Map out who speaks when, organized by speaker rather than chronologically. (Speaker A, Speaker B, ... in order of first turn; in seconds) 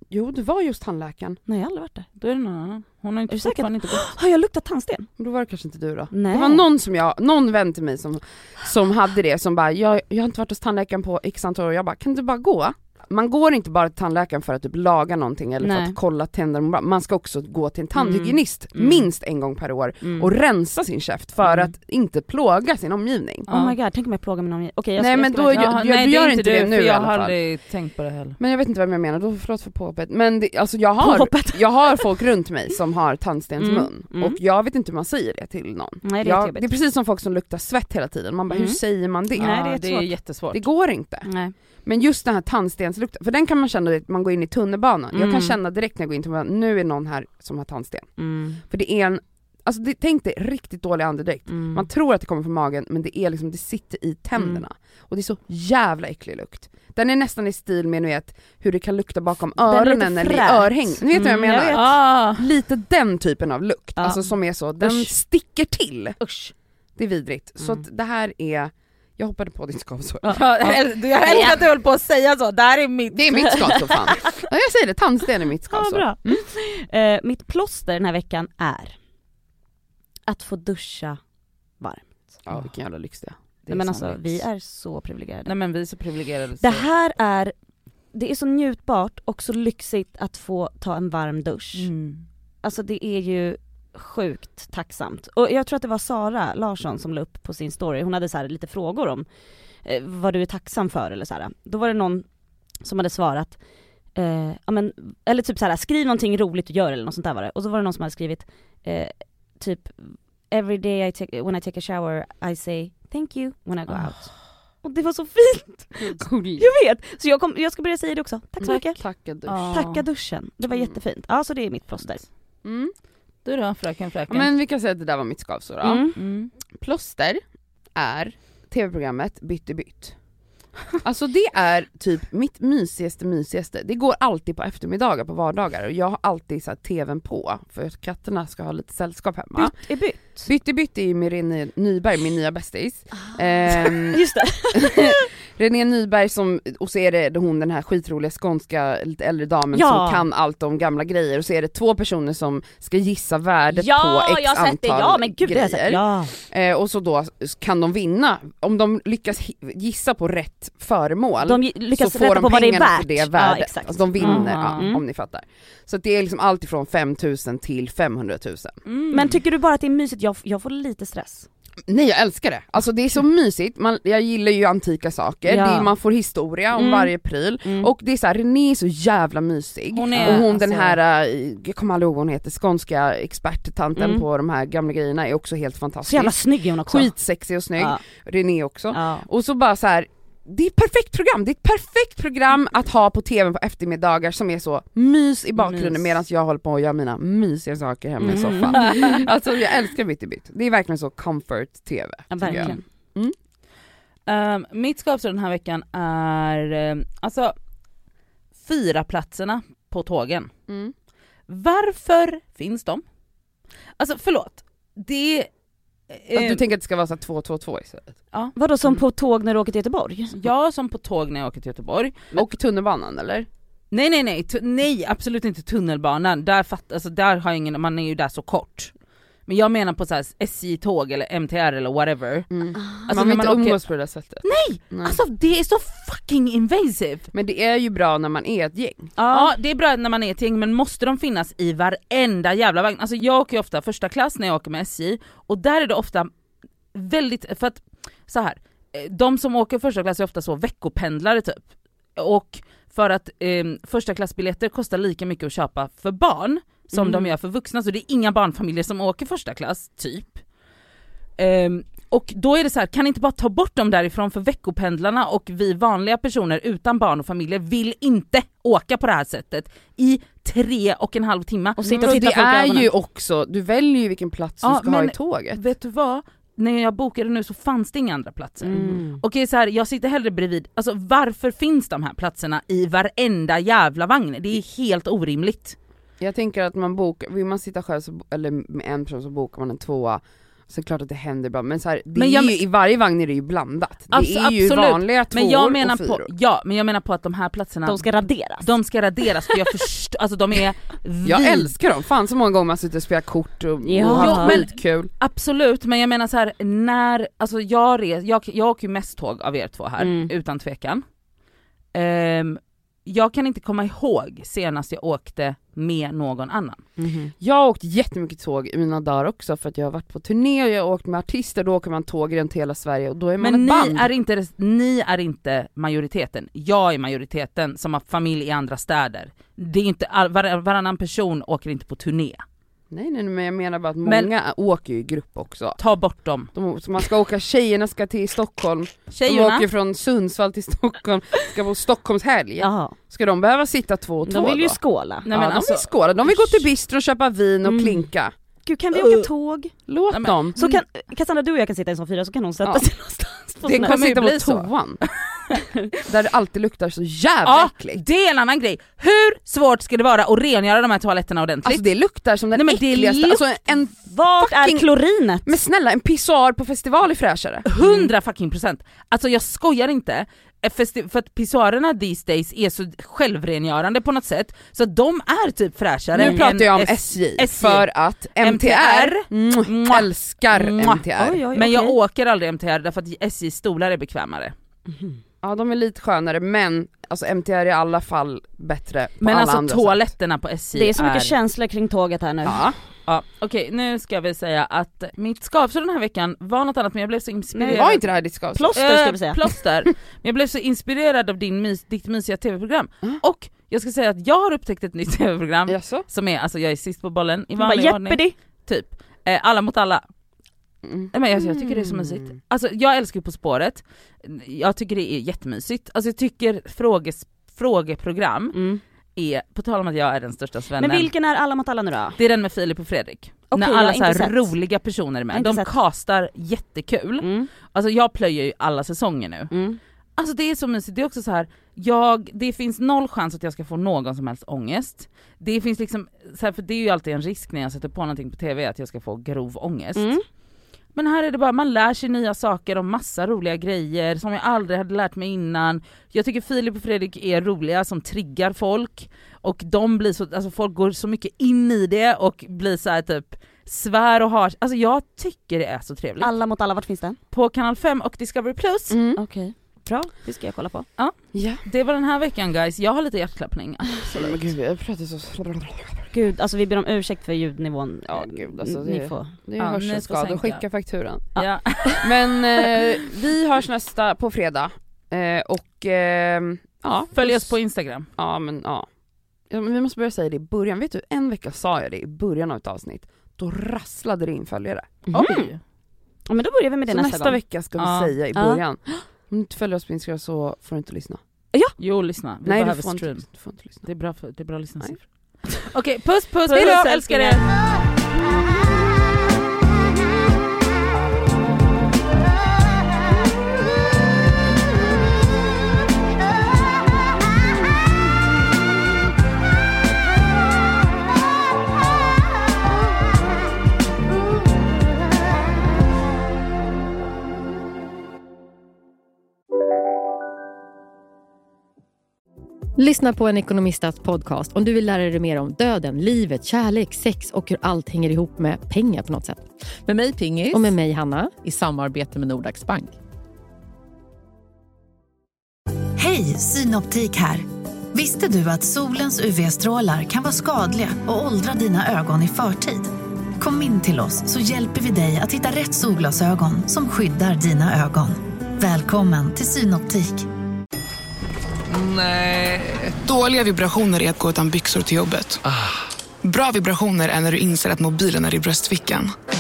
Speaker A: 0.1-1.4, 5.2-23.5, 25.0-27.4, 28.4-39.6, 40.5-41.3, 41.9-48.1, 48.7-66.2, 67.0-70.8, 73.1-76.4, 82.5-83.4, 116.0-116.7, 118.6-119.9, 122.6-122.9, 124.3-126.1, 126.8-127.4, 128.0-130.2, 131.0-139.8, 140.4-168.7, 171.9-203.3, 210.7-210.9, 216.3-218.2, 222.3-223.5, 232.5-235.2, 237.3-239.2, 271.8-275.6, 286.2-296.3, 301.2-305.1, 317.4-324.1, 332.9-335.8, 336.5-344.8, 345.3-348.3, 349.9-350.6, 353.6-355.0, 356.1-358.0, 361.6-364.9, 365.4-367.7, 376.1-381.4, 385.4-390.1, 392.4-392.7, 397.7-398.8, 405.7-406.1, 410.9-412.3, 458.9-459.2, 461.3-461.6, 464.1-466.1, 468.1-471.3, 472.0-477.6, 478.2-478.9, 479.5-485.4, 486.9-491.2, 492.4-493.9
Speaker B: 1.5-2.1, 3.3-5.1, 6.1-6.7, 15.6-16.0, 18.0-19.1, 20.0-20.3, 23.5-25.7, 31.0-32.0, 33.6-34.4, 36.0-36.7, 38.5-38.8, 39.3-40.1, 41.2-41.5, 45.1-45.6, 48.2-48.6, 51.5-51.9, 59.7-61.8, 64.0-65.1, 66.2-66.5, 71.3-71.6, 73.5-74.3, 75.7-79.0, 80.3-81.2, 81.8-82.1, 83.7-85.5, 86.6-87.5, 88.1-91.9, 92.6-99.3, 99.8-102.3, 102.8-103.6, 104.2-114.3, 114.8-119.0, 119.7-122.2, 125.8-126.2, 139.6-140.5, 143.2-145.3, 149.7-150.2, 153.7-156.3, 161.4-165.0, 169.1-171.5, 175.5-175.9, 176.7-177.1, 177.6-177.9, 180.1-181.0, 184.0-184.2, 186.1-187.1, 188.9-189.3, 195.6-196.1, 198.2-199.2, 202.3-202.8, 218.6-220.4, 232.8-233.2, 239.2-239.5, 271.8-272.3, 278.6-279.2, 297.9-298.7, 303.8-304.6, 310.0-310.3, 317.0-317.3, 342.6-342.9, 344.3-345.3, 347.7-348.0, 348.6-349.7, 350.6-354.0, 364.1-365.6, 376.2-376.4, 381.1-382.0, 384.9-385.2, 390.7-392.6, 397.6-397.9, 398.5-399.4, 407.6-408.4, 418.5-418.8, 420.8-422.2, 423.5-424.5, 425.3-425.7, 427.2-427.5, 429.5-429.8, 440.0-440.2, 456.2-457.2, 459.2-460.9, 466.1-469.3, 471.4-472.0, 485.1-485.5, 486.3-487.4, 488.4-489.0, 496.5-497.4
Speaker C: 2.2-4.0, 23.5-23.8, 25.5-28.4, 39.4-40.6, 61.7-62.4, 70.2-73.7, 83.7-84.4, 85.5-86.9, 91.8-92.2, 119.5-120.0, 123.5-124.5, 126.2-126.5, 164.2-164.9, 168.8-169.4, 179.9-180.5, 198.7-199.2, 202.5-202.8, 204.3-207.6, 208.6-210.5, 211.5-213.0, 214.0-215.5, 216.1-216.6, 218.3-219.0, 220.3-222.4, 223.9-228.9, 229.5-232.5, 233.1-233.8, 234.4-237.3, 239.3-246.3, 246.9-251.6, 252.2-260.4, 261.4-272.9, 274.6-285.8, 292.2-292.6, 294.1-298.1, 298.6-301.7, 304.1-311.0, 311.9-316.8, 323.4-332.4, 334.1-334.3, 335.8-336.5, 339.1-339.7, 345.3-346.5, 348.9-349.3, 350.1-350.8, 353.6-355.6, 357.4-361.9, 362.5-363.4, 367.7-384.5, 389.2-391.4, 393.1-398.1, 398.8-410.0, 411.1-418.6, 419.2-421.1, 422.2-429.5, 430.2-440.2, 440.9-456.3, 457.3-459.0, 461.0-464.5, 469.6-470.6, 471.4-472.3, 477.1-478.1, 485.1-485.6, 487.8-488.1, 491.8-493.3, 493.8-497.5
Speaker D: 522.8-529.5, 530.5-531.4
Speaker E: 529.9-530.7, 531.4-533.0
Speaker F: 536.0-550.3
Speaker G: 551.8-555.4, 556.2-559.1